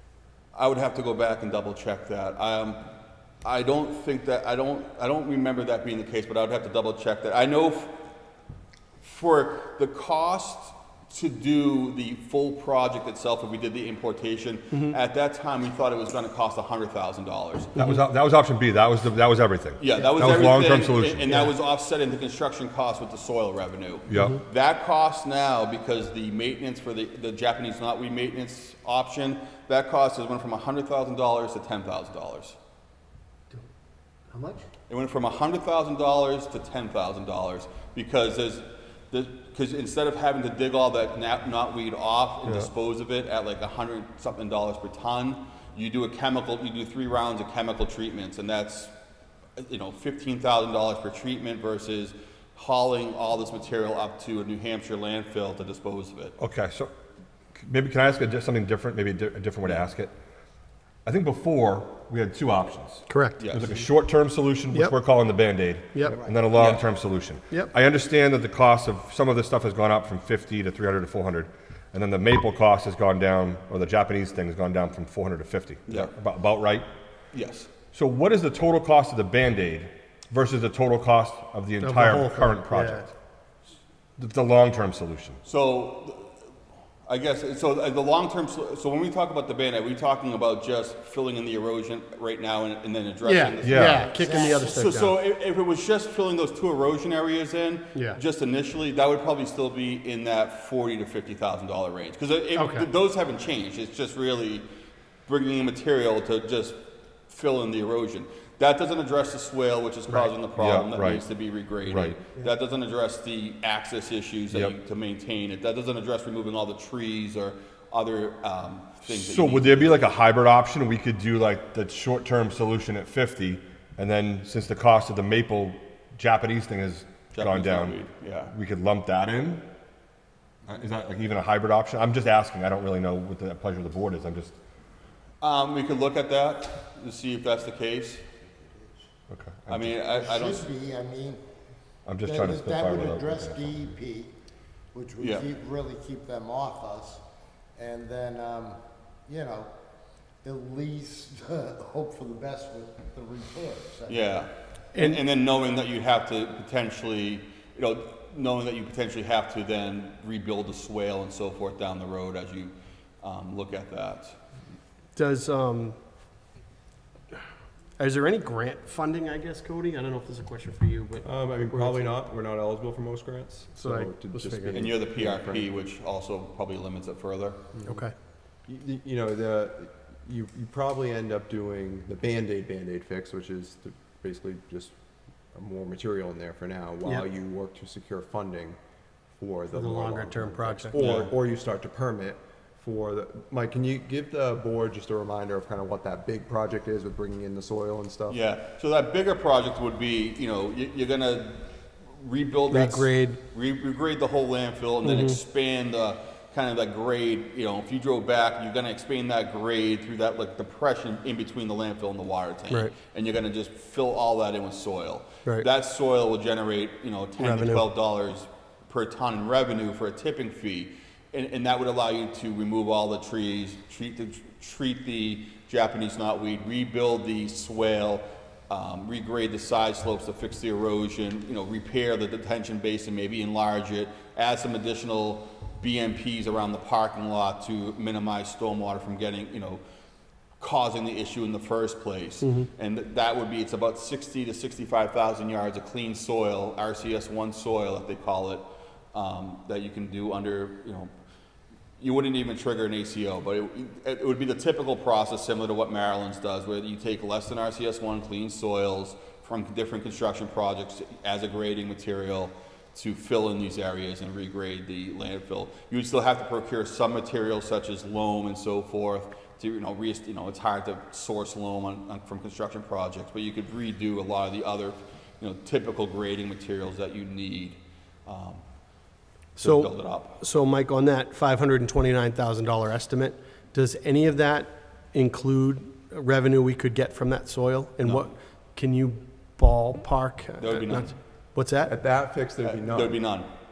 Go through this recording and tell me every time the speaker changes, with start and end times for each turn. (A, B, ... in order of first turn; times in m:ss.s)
0:00.5-0:02.9 A
0:03.4-0:08.0 A
0:09.0-0:17.8 A
0:17.8-0:21.3 B
0:19.8-0:32.6 A
0:24.1-0:24.4 B
0:24.1-0:24.4 C
0:34.3-0:34.7 D
0:34.9-0:48.9 A
0:49.6-0:56.3 A
0:56.4-0:56.9 B
0:57.5-1:00.1 B
1:01.0-1:16.9 B
1:03.1-1:03.4 C
1:03.4-1:03.9 A
1:06.1-1:06.4 D
1:06.5-1:06.8 A
1:15.9-1:16.1 A
1:17.3-1:17.7 A
1:17.9-1:23.1 B
1:21.8-1:23.1 C
1:24.2-1:25.4 B
1:25.4-1:26.3 A
1:27.1-1:44.7 A
1:33.2-1:35.2 C
1:33.6-1:34.0 B
1:34.2-1:34.7 D
1:42.6-1:42.9 C
1:45.3-2:00.1 A
1:50.6-1:51.2 B
1:51.8-1:52.2 B
1:59.1-2:08.0 B
2:07.3-2:08.5 A
2:08.5-2:09.6 B
2:10.7-2:14.6 B
2:15.4-2:18.2 A
2:19.3-2:20.0 B
2:19.7-2:20.7 A
2:20.1-2:21.4 D
2:22.1-2:23.9 B
2:22.2-2:24.4 D
2:24.9-2:27.2 D
2:25.2-2:25.5 A
2:27.8-2:29.7 D
2:30.4-2:34.4 D
2:34.1-2:44.4 A
2:34.9-2:35.2 C
2:45.2-2:46.0 C
2:48.0-2:52.2 C
2:51.2-2:55.7 E
2:53.8-2:54.9 C
2:54.7-2:57.6 A
2:57.7-2:58.0 E
2:57.8-2:58.1 C
2:58.7-3:04.9 E
3:05.5-3:08.8 E
3:09.4-3:18.4 E
3:09.7-3:11.0 C
3:11.0-3:11.3 A
3:18.3-3:59.8 A
3:22.7-3:23.4 C
3:25.0-3:25.4 C
3:37.4-3:37.9 C
4:00.6-4:11.1 A
4:02.4-4:02.7 C
4:12.0-4:38.6 A
4:39.6-4:40.4 A
4:39.6-4:52.0 C
4:50.6-4:51.2 A
4:51.9-4:53.2 E
4:52.6-4:53.5 A